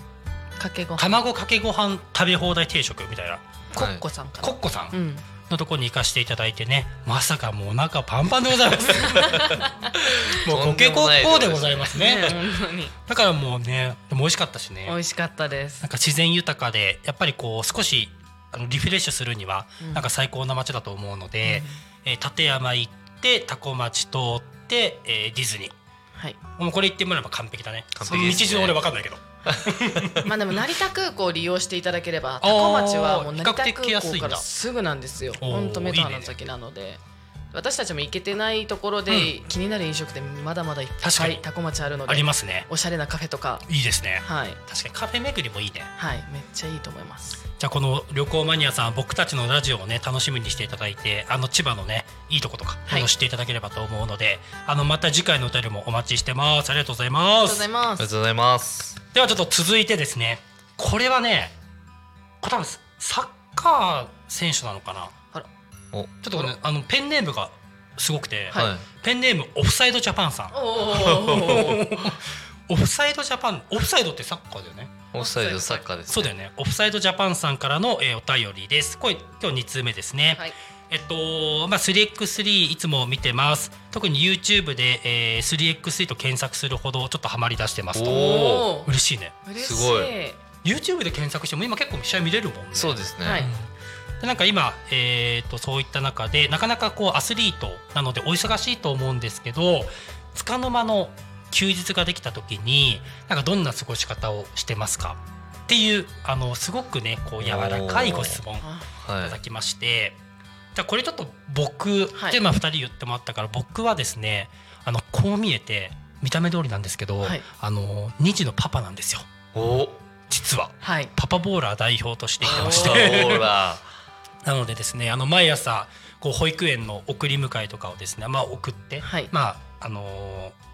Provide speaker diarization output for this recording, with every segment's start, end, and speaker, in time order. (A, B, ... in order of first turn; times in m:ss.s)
0:00.6-0:01.2 A
0:01.0-0:03.4 B
0:03.7-0:05.2 A
0:03.7-0:04.0 C
0:04.4-0:05.0 B
0:05.5-0:09.6 B
0:08.9-0:10.3 A
0:10.2-0:12.5 B
0:10.5-0:12.4 C
0:11.9-0:12.9 A
0:13.0-0:15.0 B
0:14.8-0:15.9 A
0:15.8-0:25.7 B
0:19.8-0:20.1 A
0:21.4-0:21.8 A
0:26.6-0:30.3 B
0:28.0-0:28.8 C
0:28.1-0:28.4 A
0:29.5-0:30.2 C
0:30.2-0:37.0 A
0:32.4-0:34.4 B
0:35.4-0:36.4 B
0:37.5-0:43.6 A
0:41.0-0:41.4 B
0:42.0-0:42.7 B
0:43.7-0:45.9 B
0:44.2-0:44.6 A
0:46.0-0:47.4 A
0:47.6-0:57.7 B
0:57.4-0:58.1 A
0:58.0-0:59.0 C
0:59.1-1:01.5 B
1:02.4-1:05.1 B
1:05.9-1:06.5 C
1:06.2-1:14.9 B
1:08.5-1:08.8 C
1:10.5-1:11.9 A
1:11.1-1:11.4 C
1:15.1-1:16.3 C
1:15.1-1:15.9 A
1:16.1-1:29.4 B
1:27.9-1:28.7 C
1:28.0-1:28.9 A
1:29.4-1:30.4 A
1:29.6-1:30.1 C
1:30.6-1:33.7 B
1:32.7-1:33.5 C
1:33.2-1:33.5 A
1:34.2-1:50.2 B
1:47.4-1:48.4 C
1:48.6-1:48.9 A
1:49.0-1:49.4 C
1:50.7-1:59.2 B
1:59.5-2:00.0 C
2:00.3-2:03.5 B
2:00.8-2:01.1 A
2:02.4-2:03.8 C
2:02.5-2:03.0 A
2:04.4-2:10.5 B
2:09.0-2:09.3 A